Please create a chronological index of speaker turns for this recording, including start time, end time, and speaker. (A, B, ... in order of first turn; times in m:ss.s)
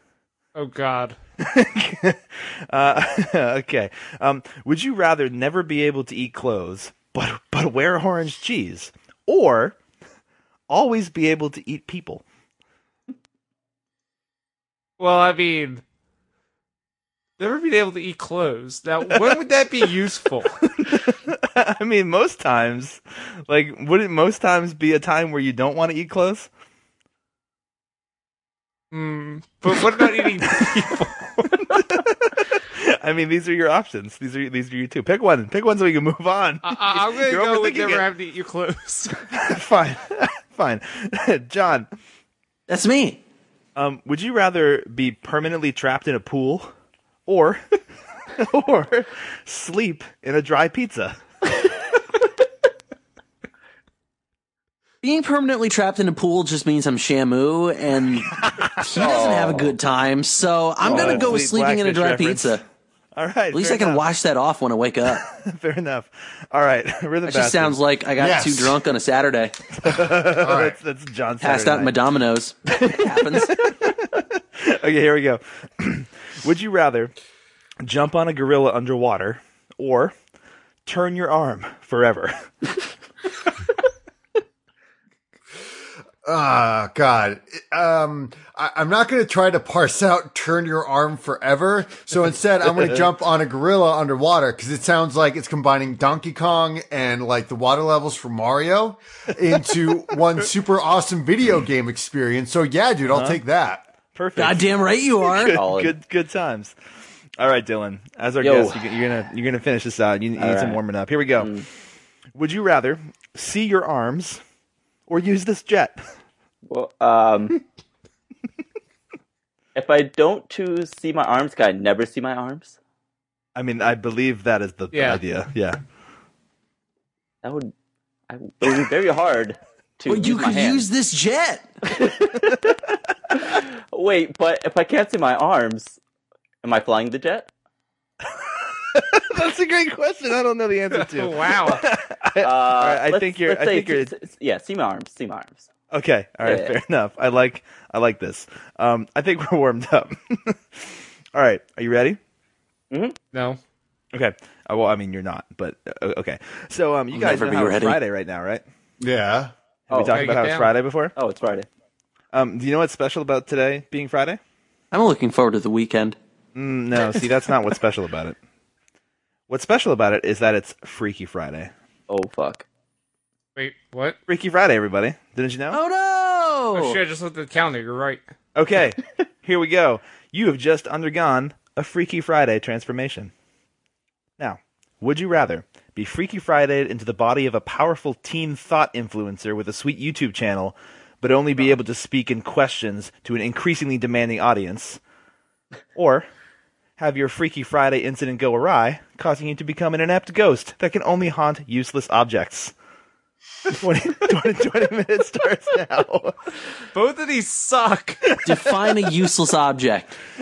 0:00.6-0:01.2 A
0:01.4-0:09.8 B
0:10.7-0:12.2 B
0:15.0-0:15.8 A
0:17.4-0:20.6 A
0:20.6-0:26.5 B
0:28.9-0:32.0 A
0:29.7-0:30.9 B
0:31.4-0:38.1 B
0:36.6-0:39.3 A
0:39.3-0:41.9 B
0:42.7-0:43.2 C
0:43.8-0:46.7 B
0:47.3-0:47.8 B
0:48.4-0:51.2 B
0:55.0-1:02.6 C
0:58.3-0:59.1 B
0:58.8-0:59.7 D
1:00.8-1:01.4 D
1:00.8-1:02.6 B
1:03.2-1:04.0 B
1:03.5-1:05.2 C
1:05.2-1:07.8 B
1:07.3-1:09.6 C
1:08.2-1:08.8 E
1:09.8-1:12.0 B
1:10.4-1:10.8 E
1:11.4-1:13.6 C
1:13.3-1:17.1 B
1:17.8-1:20.1 B
1:20.9-1:22.3 B
1:26.2-1:43.8 E
1:39.7-1:39.9 B
1:43.1-1:43.4 B
1:44.1-1:46.8 B
1:44.4-1:45.6 C
1:45.5-1:45.9 D
1:47.4-1:51.5 B
1:48.4-1:48.8 D
1:50.4-1:50.8 D
1:51.4-1:51.7 D
1:52.4-1:54.4 B
1:55.1-1:56.0 B
1:56.7-1:57.6 D
1:59.8-2:02.8 D
2:03.6-2:05.8 B
2:04.9-2:05.2 A
2:07.4-2:07.7 D
2:08.3-2:10.8 D
2:10.1-2:11.7 C
2:11.8-2:12.8 D
2:13.3-2:16.0 D
2:16.6-2:17.5 D
2:18.2-2:24.1 B
2:20.9-2:21.8 A
2:22.4-2:25.7 D
2:25.9-2:32.2 B
2:26.4-2:26.7 D
2:32.9-2:33.2 D
2:33.3-2:33.6 A
2:34.1-2:38.6 B
2:37.1-2:38.0 C
2:39.0-2:39.5 E
2:39.9-2:41.1 B
2:39.9-2:40.4 D
2:40.1-2:40.7 A
2:41.2-2:41.7 D
2:42.3-2:44.4 B
2:44.9-2:46.2 C
2:46.6-2:48.4 B
2:49.5-2:51.7 B
2:52.1-2:52.6 D
2:53.6-2:54.2 A
2:54.3-2:55.8 B
2:55.7-2:57.0 C
2:56.8-2:58.2 A
2:58.6-3:03.3 B
3:04.4-3:15.0 B
3:16.0-3:16.3 B
3:17.0-3:22.7 B
3:23.7-3:26.4 B
3:27.0-3:28.2 A
3:28.3-3:29.1 B
3:28.4-3:30.2 C